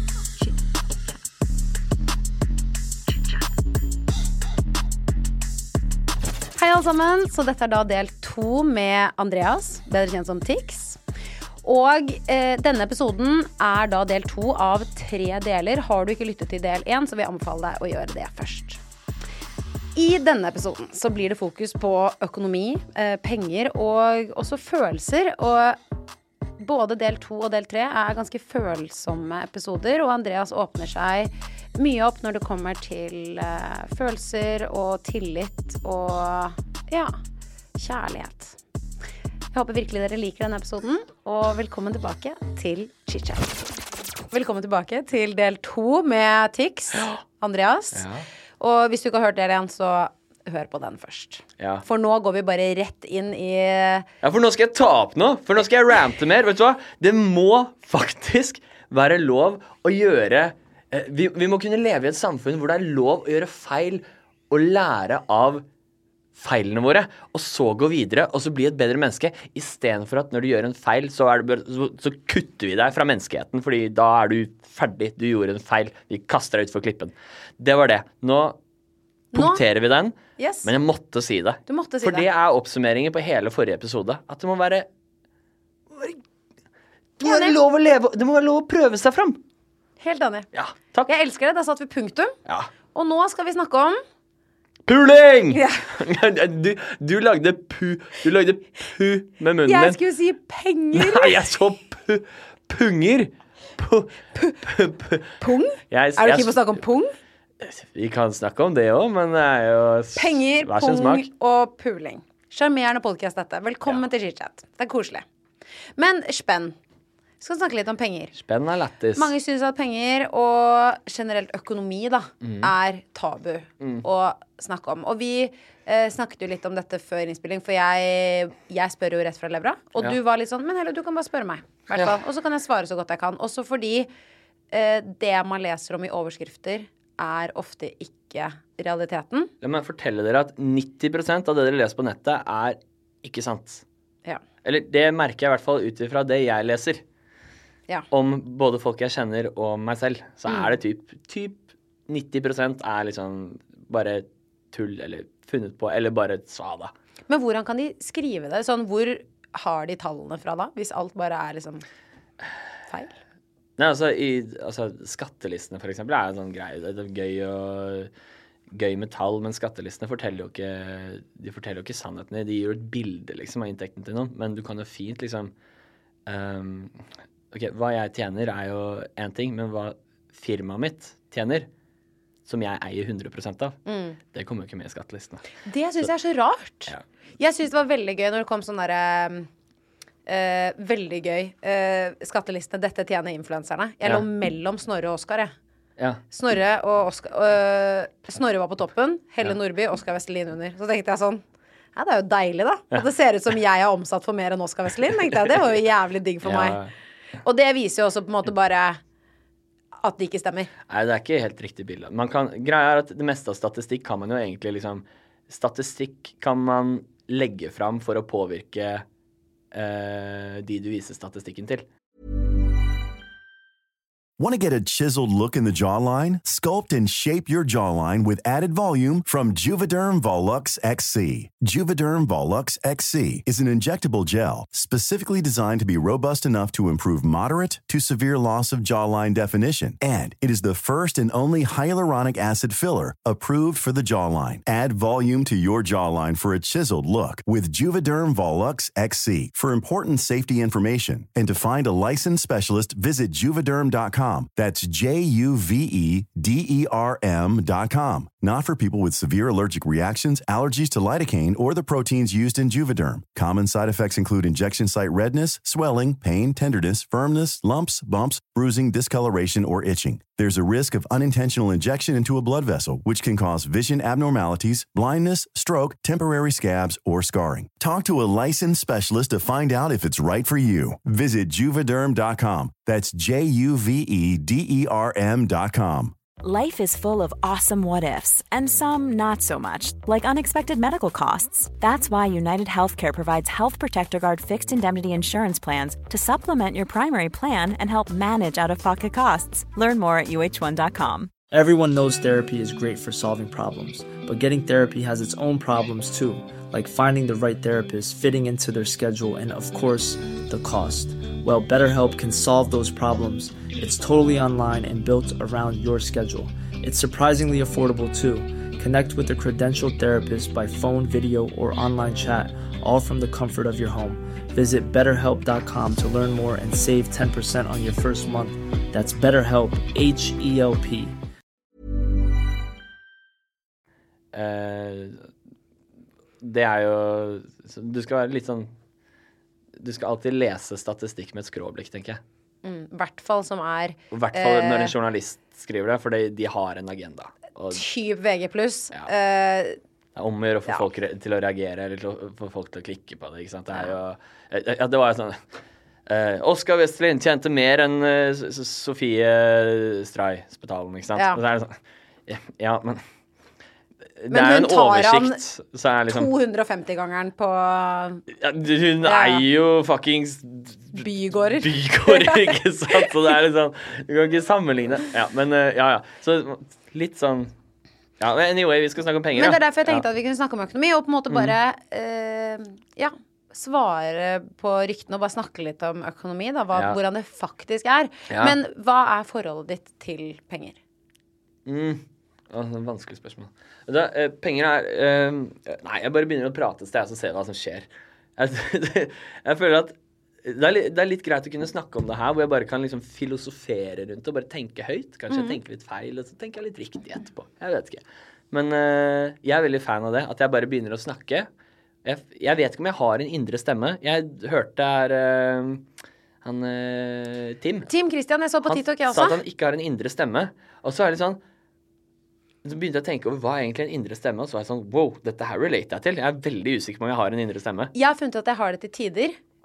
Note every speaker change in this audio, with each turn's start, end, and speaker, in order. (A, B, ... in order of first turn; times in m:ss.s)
0:03.1-0:03.5 A
0:06.6-0:11.0 A
0:11.6-0:18.8 A
0:20.0-0:25.8 A
0:26.6-0:37.2 A
0:37.8-0:38.6 A
0:39.5-0:43.6 A
0:44.3-0:48.0 A
0:47.9-0:48.3 B
0:48.6-0:54.1 A
0:51.6-0:51.8 B
0:54.2-1:05.6 B
1:06.4-1:18.6 B
1:19.3-1:19.6 A
1:19.3-1:24.9 B
1:20.4-1:20.7 A
1:21.7-1:22.3 A
1:25.9-1:26.2 B
1:27.2-1:29.4 B
1:27.2-1:27.6 A
1:30.0-1:30.5 A
1:30.5-1:31.1 B
1:31.1-1:32.4 A
1:32.9-1:34.0 A
1:34.9-1:40.0 B
1:35.5-1:35.9 A
1:39.6-1:41.4 A
1:40.9-1:46.7 B
1:45.4-1:47.2 A
1:47.6-1:51.3 B
1:50.2-1:55.2 A
1:56.0-1:56.8 A
1:57.4-1:58.4 A
1:58.4-1:59.3 B
1:59.2-2:14.1 A
2:02.4-2:02.7 B
2:03.8-2:04.0 B
2:14.7-2:19.5 A
2:19.6-2:23.8 B
2:24.6-2:27.0 B
2:28.1-2:36.9 B
2:37.3-2:41.8 A
2:43.8-2:48.1 B
2:48.7-2:55.5 B
2:56.3-3:01.7 B
3:02.5-3:03.8 B
3:03.9-3:04.2 A
3:04.3-3:05.5 B
3:05.6-3:09.5 A
3:10.3-3:15.5 A
3:16.3-3:21.4 A
3:22.0-3:26.8 A
3:26.4-3:26.9 B
3:27.4-3:29.0 A
3:30.0-3:30.7 A
3:30.9-3:39.0 B
3:39.7-3:41.8 B
3:44.4-4:46.2 C
4:46.4-5:01.3 D
5:01.5-5:31.2 E
5:34.3-5:35.3 B
5:36.4-5:38.7 B
5:39.8-5:42.2 B
5:42.6-5:45.0 A
5:44.1-5:47.8 B
5:47.7-5:49.8 A
5:50.2-5:55.4 B
5:56.1-6:03.0 B
6:01.2-6:01.4 A
6:04.2-6:06.3 B
6:04.3-6:05.4 A
6:06.1-6:08.2 A
6:08.4-6:11.0 B
6:09.0-6:09.4 A
6:10.9-6:13.1 A
6:11.6-6:17.5 B
6:18.2-6:20.0 B
6:19.4-6:30.8 A
6:21.3-6:21.6 B
6:28.3-6:28.6 B
6:31.7-6:51.5 B
6:45.3-6:45.6 A
6:52.0-6:55.8 B
6:56.4-6:57.9 B
6:57.9-6:59.4 A
6:58.6-7:01.4 B
7:02.6-7:07.9 B
7:07.9-7:09.4 A